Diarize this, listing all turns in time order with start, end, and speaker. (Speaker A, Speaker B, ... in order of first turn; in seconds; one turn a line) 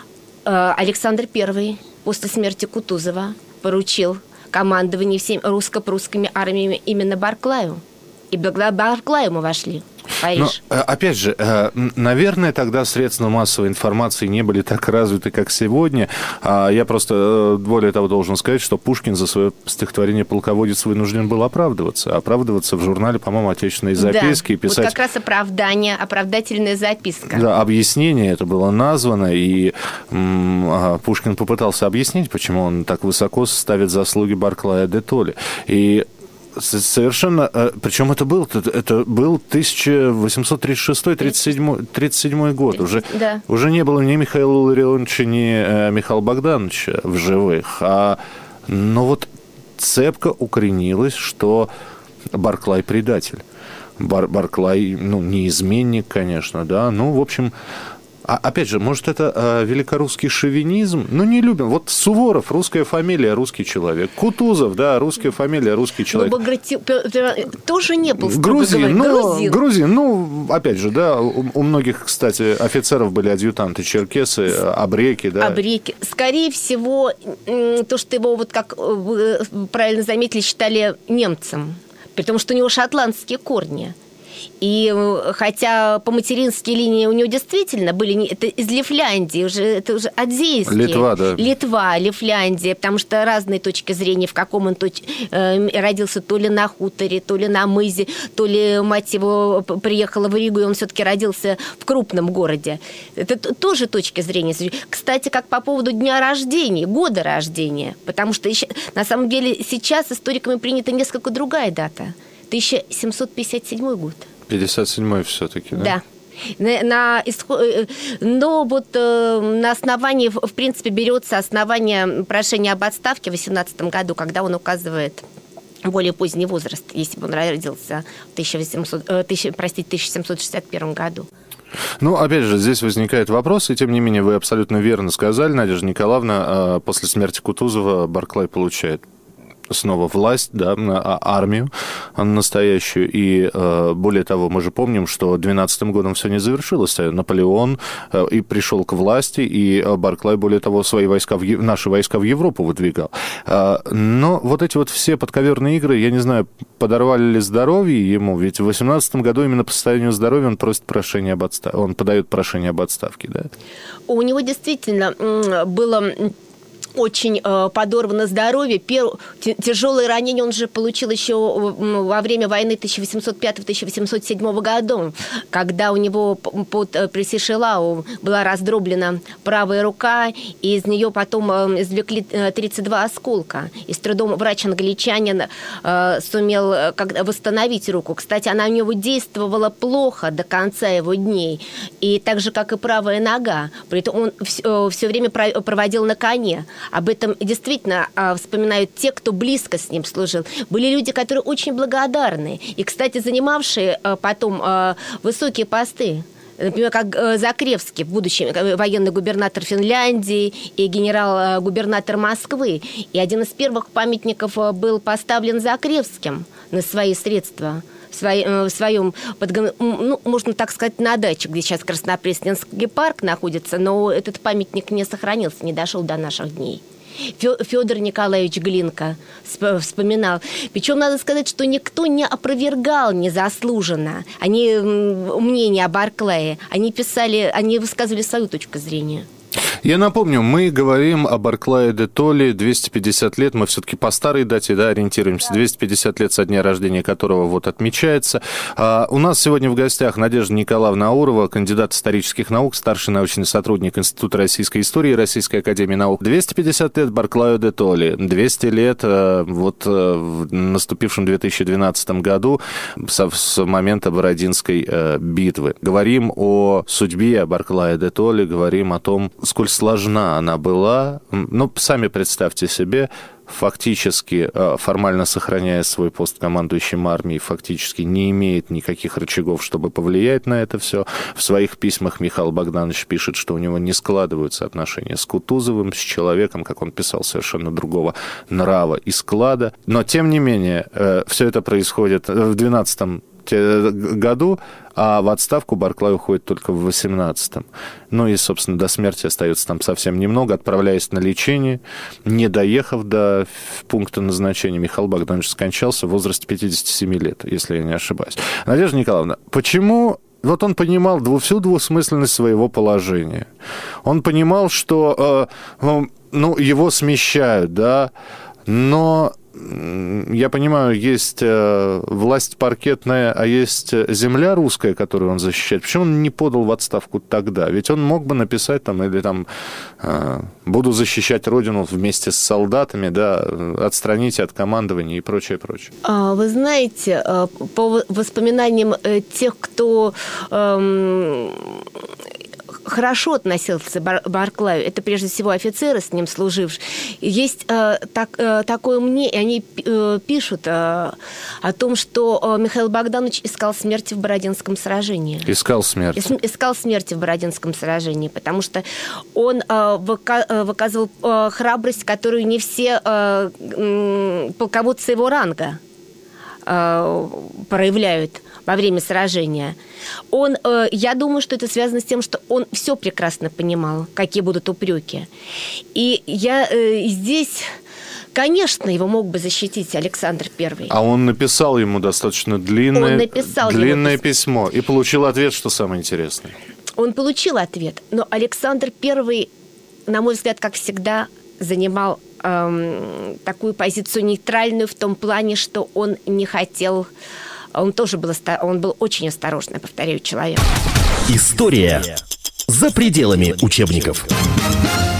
Speaker A: 0.4-10.6
Speaker B: 10.3-24.9
Speaker A: 23.9-27.4
Speaker B: 27.3-51.7
Speaker A: 42.7-43.4
Speaker B: 52.3-53.4
Speaker B: 54.0-57.5
Speaker B: 58.2-66.4
Speaker A: 66.1-69.6
Speaker B: 68.2-75.6
Speaker A: 75.4-83.9
Speaker A: 84.6-114.3
Speaker B: 90.7-91.4
Speaker B: 114.5-115.9
Speaker A: 115.7-116.0
Speaker A: 116.6-125.2
Speaker A: 125.8-131.3
Speaker B: 132.0-139.0
Speaker B: 139.7-163.5
Speaker A: 164.1-166.3
Speaker A: 166.9-239.3
Speaker B: 239.8-313.5
Speaker B: 314.0-318.1
Speaker B: 318.6-329.4
Speaker B: 330.0-335.9
Speaker A: 336.0-341.8
Speaker A: 342.9-355.5
Speaker B: 355.4-356.3
Speaker A: 356.1-365.8
Speaker A: 366.6-369.8
Speaker A: 370.3-375.3
Speaker A: 375.9-377.7
Speaker A: 378.3-380.9
Speaker B: 380.9-386.5
Speaker A: 382.9-384.2
Speaker A: 387.0-389.5
Speaker A: 390.1-397.1
Speaker A: 397.7-400.7
Speaker C: 401.3-402.1
Speaker C: 402.7-404.3